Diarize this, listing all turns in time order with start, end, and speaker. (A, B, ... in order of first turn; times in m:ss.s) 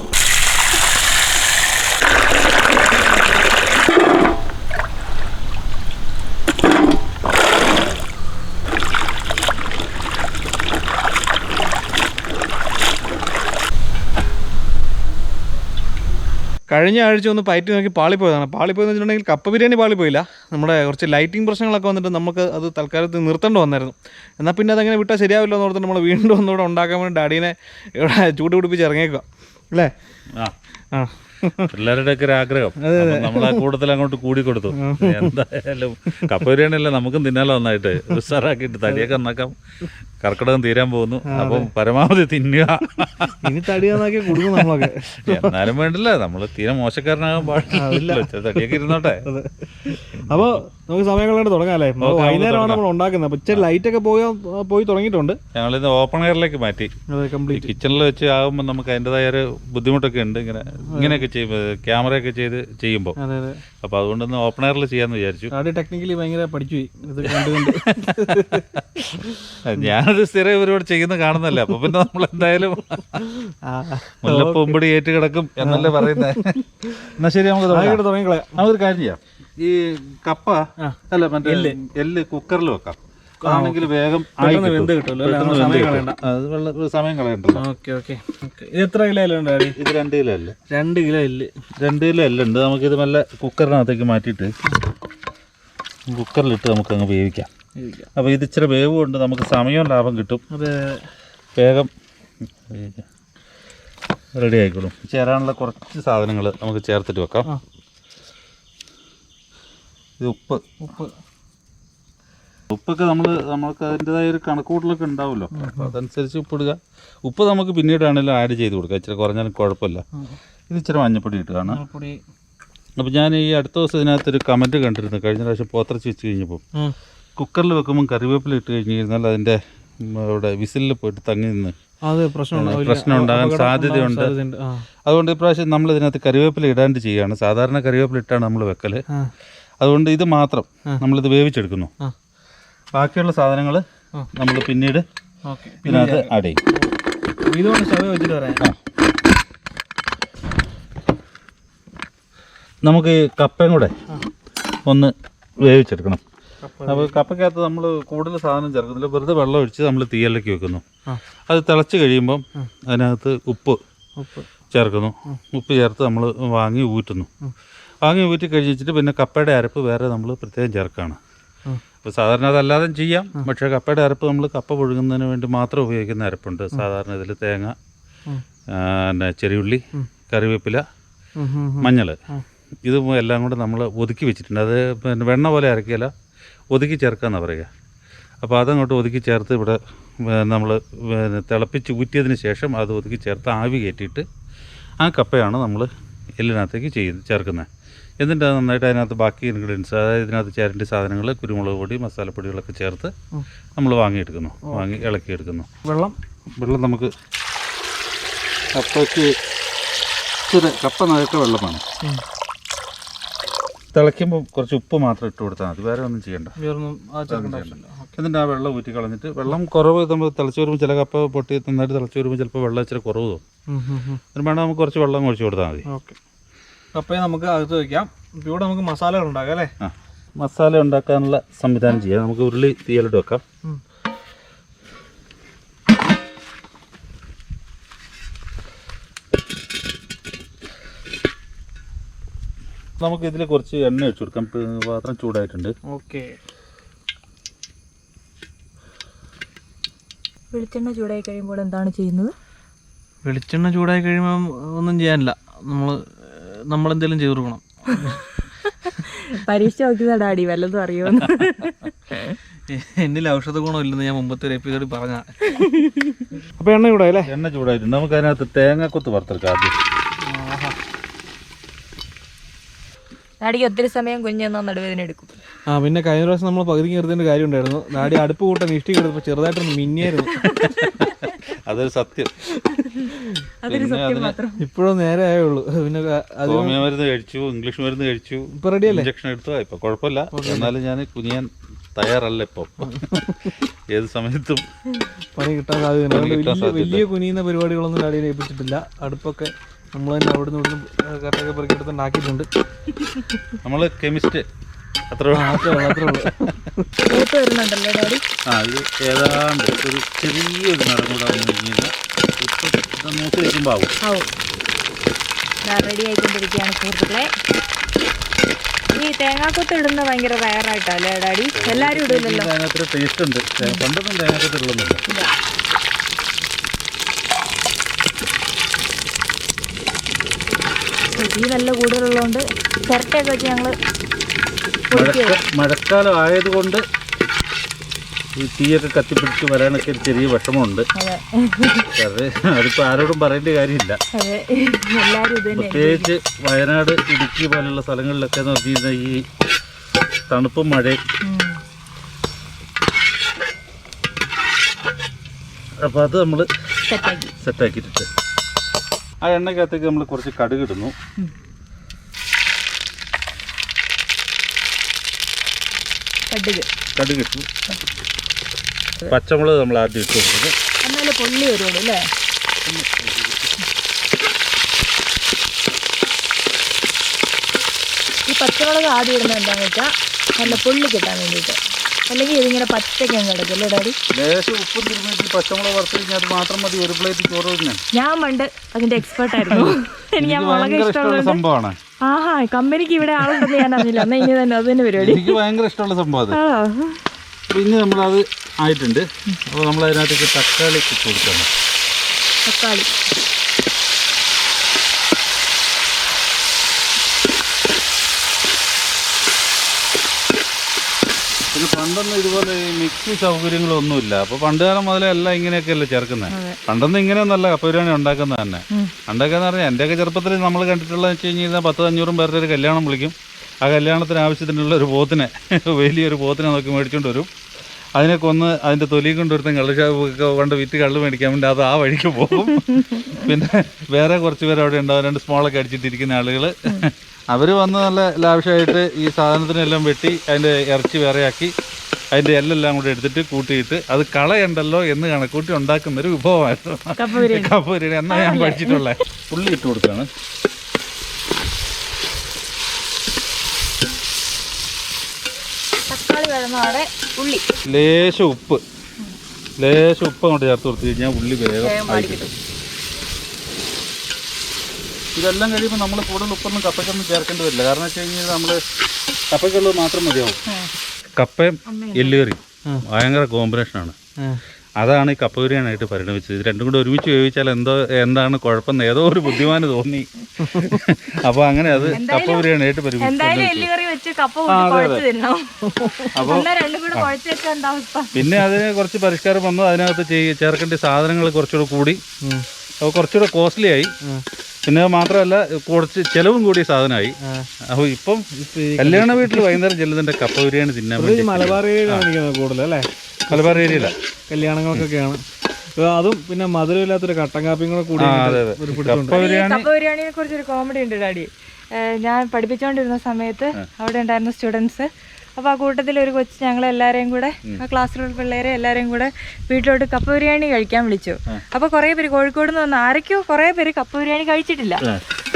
0:16.7-0:29.9 A
0:30.9-0:31.7 A
0:31.7-0:39.6 B
0:32.8-0:33.6 A
0:34.7-0:35.3 A
0:40.2-0:43.6 B
0:41.3-0:41.7 A
0:43.4-0:45.6 A
0:44.1-0:49.3 B
0:47.7-0:55.4 A
0:50.1-0:50.6 B
0:52.0-0:52.8 B
0:55.5-0:56.9 B
0:57.1-0:57.7 A
0:57.5-1:03.2 B
1:00.9-1:01.2 A
1:03.2-1:03.6 A
1:03.8-1:05.5 B
1:05.5-1:09.6 A
1:07.2-1:09.0 B
1:09.6-1:13.4 B
1:13.4-1:14.8 A
1:14.2-1:18.0 B
1:15.6-1:17.1 A
1:17.7-1:18.6 A
1:18.5-1:27.6 B
1:20.8-1:21.8 A
1:23.4-1:23.9 A
1:24.4-1:26.2 A
1:27.5-1:29.8 A
1:29.7-1:30.6 B
1:30.7-1:31.5 A
1:31.8-1:34.5 B
1:36.1-1:37.5 B
1:37.8-1:38.1 A
1:38.2-1:40.4 B
1:40.5-1:41.0 A
1:41.6-1:41.9 B
1:42.7-1:43.0 B
1:44.4-1:47.5 B
1:50.2-1:50.6 B
1:50.8-1:51.1 A
1:52.7-2:00.0 B
1:55.5-1:55.9 A
2:00.7-2:01.8 B
2:01.7-2:02.2 A
2:03.0-2:06.6 B
2:07.4-2:11.8 B
2:12.0-2:14.8 A
2:12.5-2:14.3 B
2:15.0-2:19.0 B
2:19.8-2:21.9 B
2:22.9-2:25.0 B
2:25.5-2:26.3 A
2:25.8-2:26.6 B
2:27.5-2:28.6 A
2:32.8-2:33.9 B
2:34.9-2:36.2 B
2:36.6-2:37.2 A
2:36.8-2:40.8 B
2:41.5-2:43.8 B
2:44.2-2:44.5 A
2:44.7-2:47.3 B
2:48.0-2:51.2 B
2:52.0-2:57.7 B
2:58.7-3:00.8 B
3:01.4-3:02.4 A
3:01.8-3:02.2 B
3:02.8-3:06.1 B
3:06.7-3:07.7 B
3:08.4-3:14.2 B
3:15.0-3:17.7 B
3:18.2-3:23.1 B
3:23.8-3:25.7 B
3:24.6-3:25.0 A
3:25.8-3:26.2 A
3:26.6-3:27.1 B
3:28.7-3:29.3 B
3:30.5-3:31.8 B
3:33.9-3:36.5 B
3:36.6-3:38.1 A
3:37.3-3:43.4 B
3:43.7-3:44.2 A
3:44.3-3:45.8 B
3:45.9-3:46.2 A
3:46.9-3:49.7 A
3:49.8-3:53.4 B
4:03.0-4:05.7 B
4:05.9-4:06.4 A
4:10.5-4:12.3 C
4:13.2-4:18.2 A
4:17.9-4:22.4 C
4:22.7-4:25.4 A
4:25.5-4:26.3 C
4:26.6-4:27.3 A
4:27.2-4:29.8 B
4:30.2-4:30.8 A
4:33.4-4:35.3 C
4:35.7-4:40.4 A
4:40.3-4:41.2 C
4:40.6-4:42.6 B
4:42.6-4:44.6 C
4:43.7-4:44.4 B
4:44.6-4:46.8 A
4:46.5-4:54.6 B
4:48.5-4:49.1 A
4:50.3-4:50.7 A
4:52.8-4:53.5 A
4:55.4-5:02.5 A
4:56.1-4:57.1 B
5:03.6-5:04.5 B
5:05.1-5:06.1 B
5:05.3-5:06.9 A
5:07.0-5:08.2 C
5:08.5-5:13.9 B
5:14.0-5:14.3 C
5:15.6-5:17.3 C
5:18.9-5:22.5 C
5:21.5-5:25.0 B
5:31.2-5:33.8 C
5:34.9-5:35.4 C
5:34.9-5:36.8 B
5:38.4-5:40.9 B
5:40.9-5:41.9 C
5:42.0-5:44.0 B
5:44.1-5:46.1 C
5:45.5-5:49.3 B
5:50.3-5:51.0 B
5:51.2-5:51.6 C
5:55.8-5:56.5 B
5:56.9-5:57.3 C
5:57.4-5:58.1 B
5:59.2-6:00.9 B
6:06.3-6:06.7 C
6:06.9-6:07.5 B
6:09.1-6:10.5 B
6:10.8-6:12.1 C
6:12.6-6:13.5 B
6:18.2-6:21.6 C
6:22.1-6:24.0 C
6:24.1-6:27.8 B
6:27.9-6:31.4 C
6:29.3-6:31.8 B
6:32.0-6:35.4 C
6:35.0-6:36.4 B
6:36.3-6:37.0 C
6:37.5-6:41.5 B
6:42.5-6:42.9 C
6:51.5-7:07.3 B
6:56.3-6:56.6 C
7:08.0-7:21.5 B
7:22.1-7:30.1 B
7:27.0-7:27.6 C
7:28.1-7:28.9 C
7:35.9-7:37.4 C
7:37.6-7:38.6 B
7:39.6-7:42.3 B
7:41.6-7:42.3 C
7:45.1-7:48.6 B
7:49.3-7:50.4 B
7:51.2-7:54.0 B
7:51.6-7:52.2 C
7:54.8-8:03.7 B
8:01.7-8:02.0 A
8:01.9-8:02.5 C
8:03.0-8:08.2 C
8:04.5-8:05.0 B
8:06.1-8:07.1 B
8:08.1-8:12.0 B
8:12.8-8:13.9 B
8:14.6-8:22.1 B
8:17.2-8:17.5 A
8:18.4-8:19.6 A
8:21.0-8:25.2 A
8:23.3-8:23.9 B
8:25.8-8:29.2 A
8:28.0-8:29.7 B
8:29.1-8:44.9 C